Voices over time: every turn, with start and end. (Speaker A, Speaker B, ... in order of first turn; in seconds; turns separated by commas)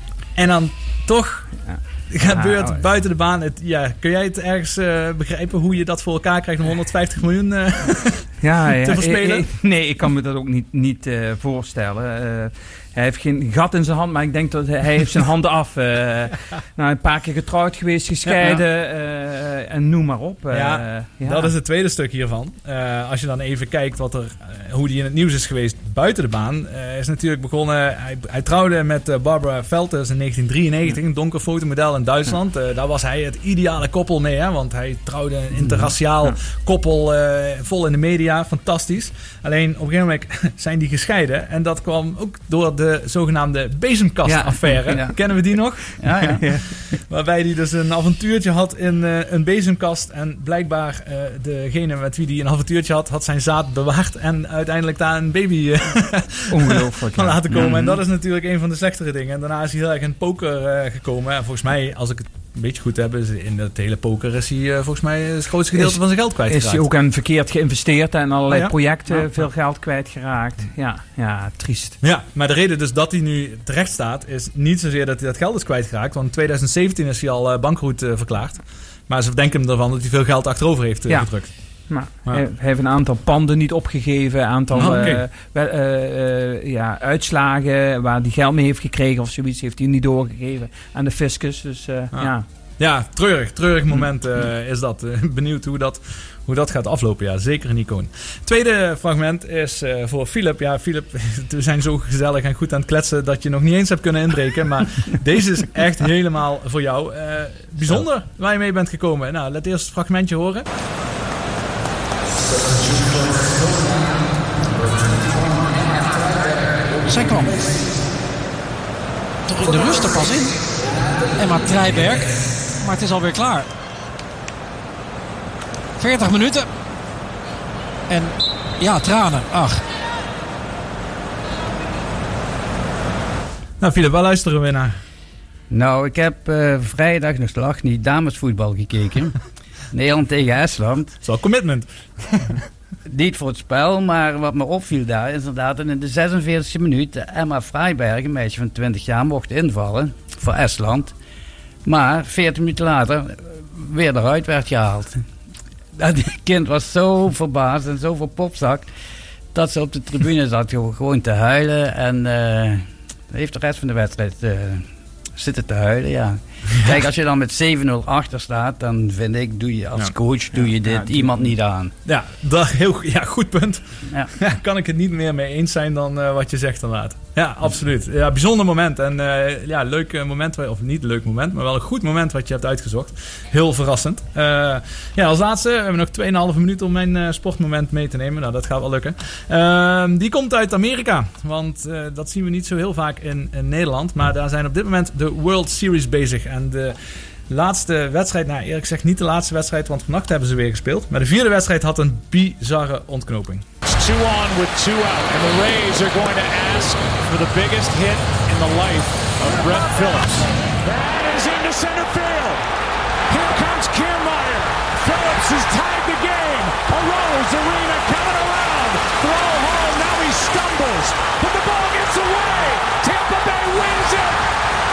Speaker A: 0.3-1.5, Speaker B: 1.6-2.8, Speaker A: 2.1-9.4, Speaker B: 8.4-21.5, Speaker A: 18.2-18.6, Speaker A: 20.5-66.9, Speaker B: 44.2-45.1, Speaker C: 46.0-46.4, Speaker B: 46.2-46.7, Speaker B: 56.5-58.0, Speaker B: 65.7-72.0, Speaker A: 68.5-69.4, Speaker A: 72.0-81.5, Speaker B: 81.9-92.4, Speaker A: 84.7-85.2, Speaker A: 92.1-110.7, Speaker D: 117.0-117.8, Speaker D: 119.5-120.5, Speaker D: 121.3-123.7, Speaker D: 126.0-126.7, Speaker D: 128.1-129.8, Speaker A: 133.8-134.9, Speaker C: 135.7-139.3, Speaker C: 139.9-141.1, Speaker A: 141.2-142.6, Speaker C: 143.1-151.1, Speaker C: 151.8-155.2, Speaker C: 155.9-158.9, Speaker C: 159.5-164.8, Speaker C: 165.3-171.9, Speaker B: 170.5-171.3, Speaker A: 172.0-173.8, Speaker A: 174.3-197.0, Speaker A: 197.5-203.6, Speaker E: 203.8-212.6, Speaker E: 213.3-224.4